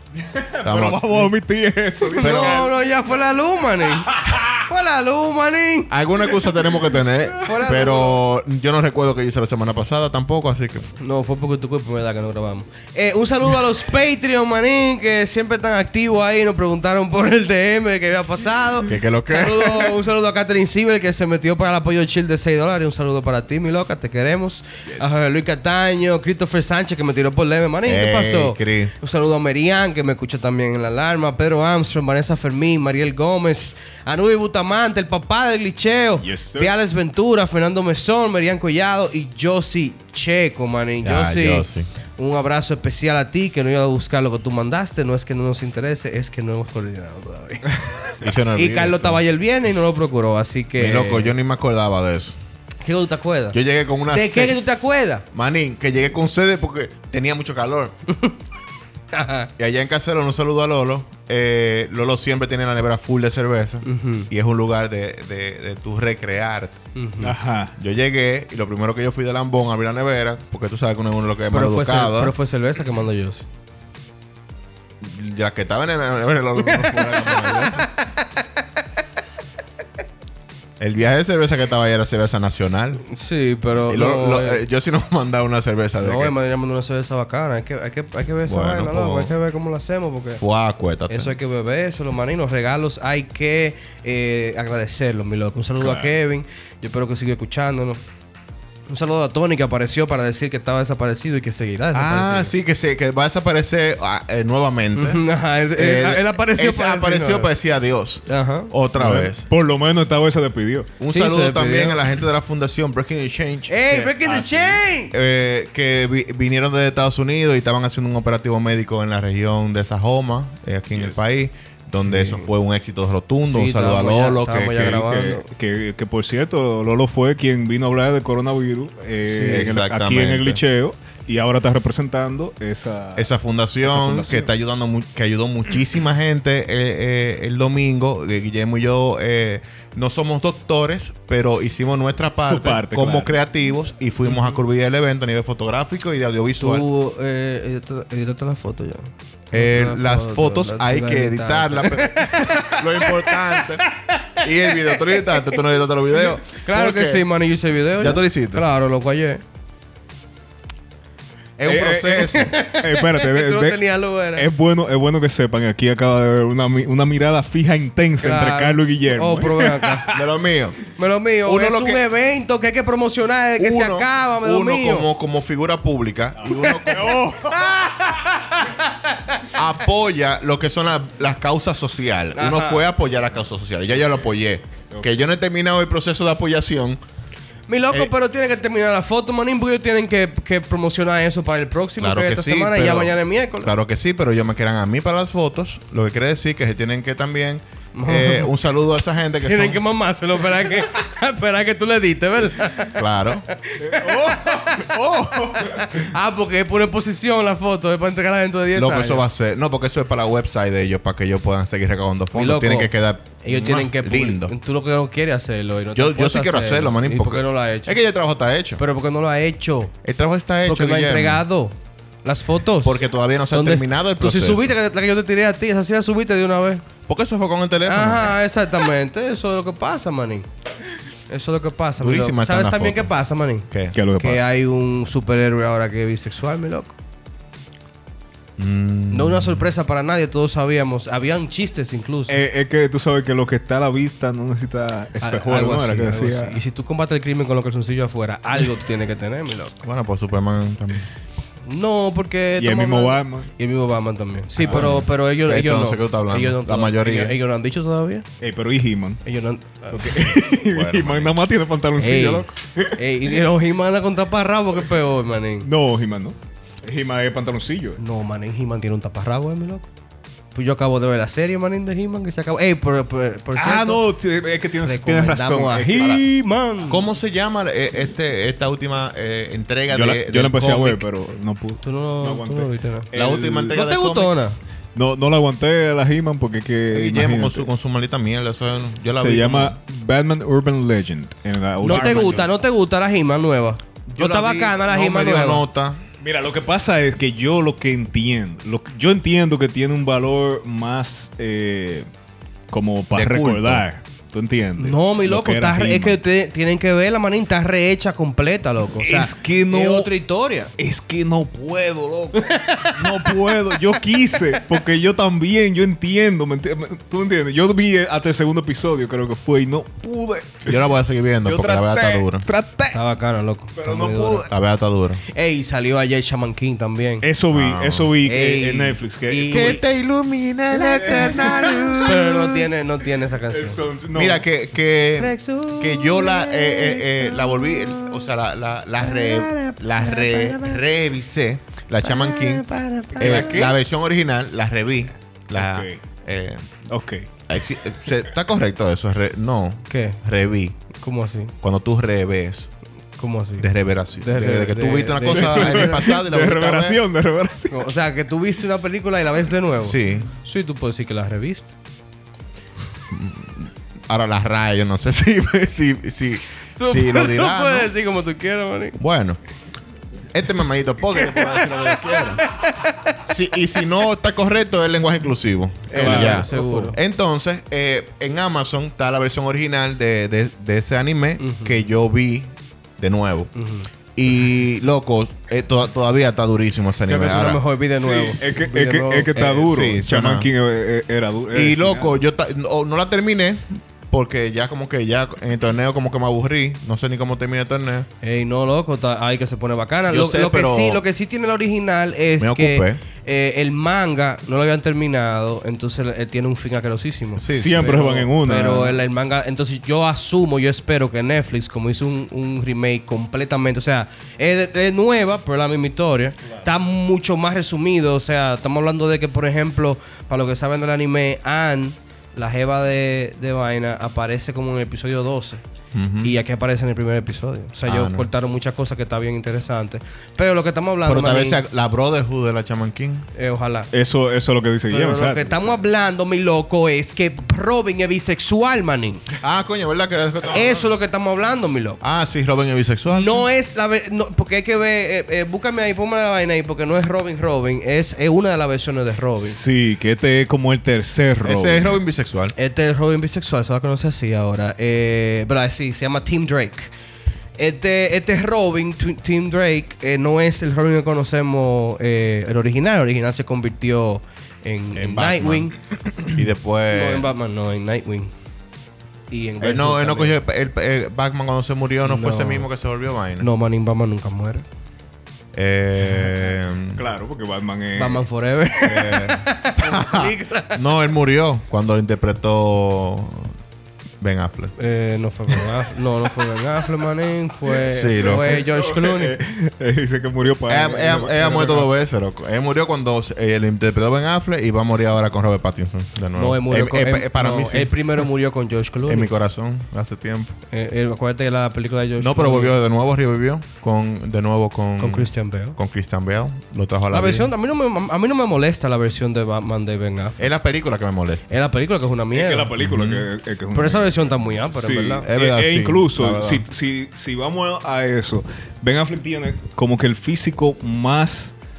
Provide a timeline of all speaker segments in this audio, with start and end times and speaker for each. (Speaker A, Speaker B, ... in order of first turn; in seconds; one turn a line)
Speaker A: 0.2-2.8
Speaker B: 0.6-1.3
Speaker B: 2.2-2.7
Speaker C: 2.2-5.9
Speaker A: 4.0-4.5
Speaker B: 5.9-10.9
Speaker C: 7.4-8.2
Speaker C: 11.0-41.7
Speaker B: 18.9-19.9
Speaker A: 24.9-25.2
Speaker B: 27.9-28.9
Speaker A: 36.2-36.7
Speaker B: 41.0-41.9
Speaker C: 42.2-47.8
Speaker B: 48.2-49.2
Speaker C: 48.5-51.3
Speaker B: 50.8-52.4
Speaker C: 52.8-53.6
Speaker B: 53.5-54.6
Speaker C: 54.1-55.2
Speaker B: 55.3-57.9
Speaker C: 58.1-58.4
Speaker C: 59.1-59.5
Speaker B: 59.6-66.8
Speaker C: 63.8-64.3
Speaker C: 67.0-67.3
Speaker A: 67.2-67.8
Speaker B: 67.8-72.3
Speaker C: 71.5-73.5
Speaker B: 75.0-77.9
Speaker B: 80.8-83.0
Speaker C: 83.0-84.6
Speaker B: 83.9-86.3
Speaker C: 86.0-90.4
Speaker B: 88.5-89.3
Speaker B: 90.4-91.3
Speaker C: 91.1-98.0
Speaker A: 95.8-96.1
Speaker C: 98.9-102.5
Speaker B: 101.9-105.2
Speaker C: 105.0-107.5
Speaker B: 105.8-109.5
Speaker C: 108.3-108.7
Speaker A: 109.0-110.9
Speaker B: 111.0-114.5
Speaker C: 111.1-112.0
Speaker C: 113.7-115.1
Speaker A: 114.3-114.8
Speaker B: 115.1-124.9
Speaker A: 120.9-121.3
Speaker C: 122.1-122.5
Speaker C: 123.5-125.5
Speaker A: 124.7-133.3
Speaker C: 129.2-129.7
Speaker B: 129.5-130.6
Speaker B: 133.2-146.8
Speaker A: 133.8-134.5
Speaker A: 142.4-143.3
Speaker C: 146.6-155.5
Speaker B: 149.5-153.8
Speaker B: 154.4-157.2
Speaker C: 156.5-159.4
Speaker B: 158.0-158.6
Speaker B: 161.6-162.5
Speaker A: 161.7-163.8
Speaker C: 162.3-164.5
Speaker A: 164.3-170.2
Speaker C: 168.2-170.1
Speaker B: 170.1-170.8
Speaker C: 171.0-175.1
Speaker B: 171.4-172.0
Speaker B: 173.6-177.2
Speaker A: 176.4-177.8
Speaker C: 176.6-179.5
Speaker B: 179.5-187.0
Speaker C: 182.4-182.8
Speaker C: 187.7-193.7
Speaker B: 192.0-199.8
Speaker C: 197.9-198.5
Speaker C: 199.4-205.0
Speaker B: 202.9-203.4
Speaker A: 203.8-206.1
Speaker C: 205.5-209.2
Speaker B: 208.7-214.5
Speaker C: 212.3-212.9
Speaker C: 213.4-218.0
Speaker B: 215.9-218.8
Speaker C: 218.8-219.9
Speaker B: 220.0-221.4
Speaker C: 220.7-226.8
Speaker B: 222.8-224.7
Speaker B: 227.1-228.4
Speaker C: 227.9-230.5
Speaker C: 231.3-237.0
Speaker B: 232.0-233.1
Speaker B: 233.7-234.0
Speaker A: 233.9-234.5
Speaker B: 238.6-239.7
Speaker C: 239.1-242.4
Speaker A: 242.3-246.6
Speaker C: 245.2-249.8
Speaker B: 249.8-251.1
Speaker C: 251.7-258.2
Speaker A: 252.6-253.5
Speaker A: 254.6-254.9
Speaker B: 254.6-257.4
Speaker A: 258.4-259.2
Speaker C: 259.2-260.2
Speaker A: 259.9-263.0
Speaker B: 260.7-261.4
Speaker C: 262.0-265.7
Speaker A: 265.6-268.0
Speaker C: 268.0-269.9
Speaker C: 270.5-274.0
Speaker A: 273.6-276.3
Speaker C: 274.8-277.1
Speaker B: 276.9-281.1
Speaker A: 279.9-283.8
Speaker C: 281.8-283.1
Speaker B: 283.1-284.3
Speaker C: 283.7-284.6
Speaker A: 284.9-287.7
Speaker B: 286.9-289.8
Speaker A: 289.1-292.5
Speaker C: 291.8-295.6
Speaker B: 291.9-292.4
Speaker B: 294.1-296.0
Speaker A: 296.2-302.1
Speaker A: 302.7-306.2
Speaker B: 303.1-303.8
Speaker C: 304.8-310.7
Speaker A: 309.0-310.1
Speaker A: 310.8-320.8
Speaker C: 312.4-313.9
Speaker B: 320.7-322.5
Speaker A: 321.4-323.0
Speaker C: 322.9-324.5
Speaker A: 323.8-324.5
Speaker B: 324.5-325.2
Speaker C: 325.3-327.3
Speaker A: 327.2-329.8
Speaker B: 327.5-328.1
Speaker C: 328.2-329.8
Speaker B: 329.5-332.6
Speaker C: 330.8-333.8
Speaker A: 330.9-332.1
Speaker A: 333.5-334.4
Speaker B: 334.1-346.8
Speaker C: 335.2-338.2
Speaker C: 339.0-340.8
Speaker C: 342.0-343.7
Speaker A: 343.2-343.8
Speaker A: 345.5-346.0
Speaker A: 346.9-347.3
Speaker B: 347.5-350.8
Speaker C: 349.9-350.2
Speaker C: 350.9-351.5
Speaker B: 351.6-352.7
Speaker C: 353.2-356.0
Speaker B: 353.6-357.0
Speaker A: 355.3-357.9
Speaker C: 357.7-361.7
Speaker B: 359.8-360.3
Speaker B: 363.1-367.9
Speaker C: 366.8-369.0
Speaker B: 369.0-369.4
Speaker B: 370.3-372.4
Speaker C: 371.2-373.2
Speaker B: 373.2-383.5
Speaker C: 375.9-377.0
Speaker A: 375.9-376.9
Speaker C: 381.4-381.8
Speaker C: 383.6-383.9
Speaker B: 384.2-387.6
Speaker C: 387.1-389.5
Speaker A: 387.9-392.1
Speaker B: 389.4-390.5
Speaker B: 391.5-398.1
Speaker C: 398.2-425.6
Speaker B: 400.1-401.0
Speaker B: 402.4-403.0
Speaker B: 407.4-407.9
Speaker A: 407.5-409.0
Speaker B: 425.9-426.3
Speaker C: 426.2-431.6
Speaker B: 427.9-428.3
Speaker B: 431.1-433.3
Speaker C: 433.4-433.9
Speaker A: 433.9-435.8
Speaker C: 434.9-439.2
Speaker B: 439.4-440.9
Speaker C: 440.5-442.0
Speaker B: 442.0-443.5
Speaker C: 443.1-449.6
Speaker A: 449.4-452.0
Speaker B: 451.4-452.5
Speaker C: 452.6-456.9
Speaker C: 457.6-465.8
Speaker B: 464.9-465.7
Speaker B: 466.3-467.3
Speaker C: 466.9-468.3
Speaker C: 469.3-470.4
Speaker B: 469.6-473.5
Speaker C: 472.0-472.7
Speaker C: 473.4-474.6
Speaker B: 475.5-477.1
Speaker A: 477.0-478.2
Speaker C: 478.0-480.8
Speaker A: 478.9-479.2
Speaker B: 478.9-483.5
Speaker B: 484.2-484.7
Speaker C: 484.8-489.4
Speaker B: 487.9-488.6
Speaker A: 488.2-491.9
Speaker B: 490.7-497.9
Speaker C: 496.4-499.3
Speaker B: 499.1-500.6
Speaker C: 500.7-502.8
Speaker B: 502.2-507.5
Speaker C: 505.0-505.8
Speaker C: 507.1-510.5
Speaker B: 510.4-511.5
Speaker C: 511.5-512.7
Speaker A: 512.3-514.2
Speaker B: 512.8-513.3
Speaker C: 513.7-515.3
Speaker A: 514.7-521.5
Speaker B: 515.2-516.6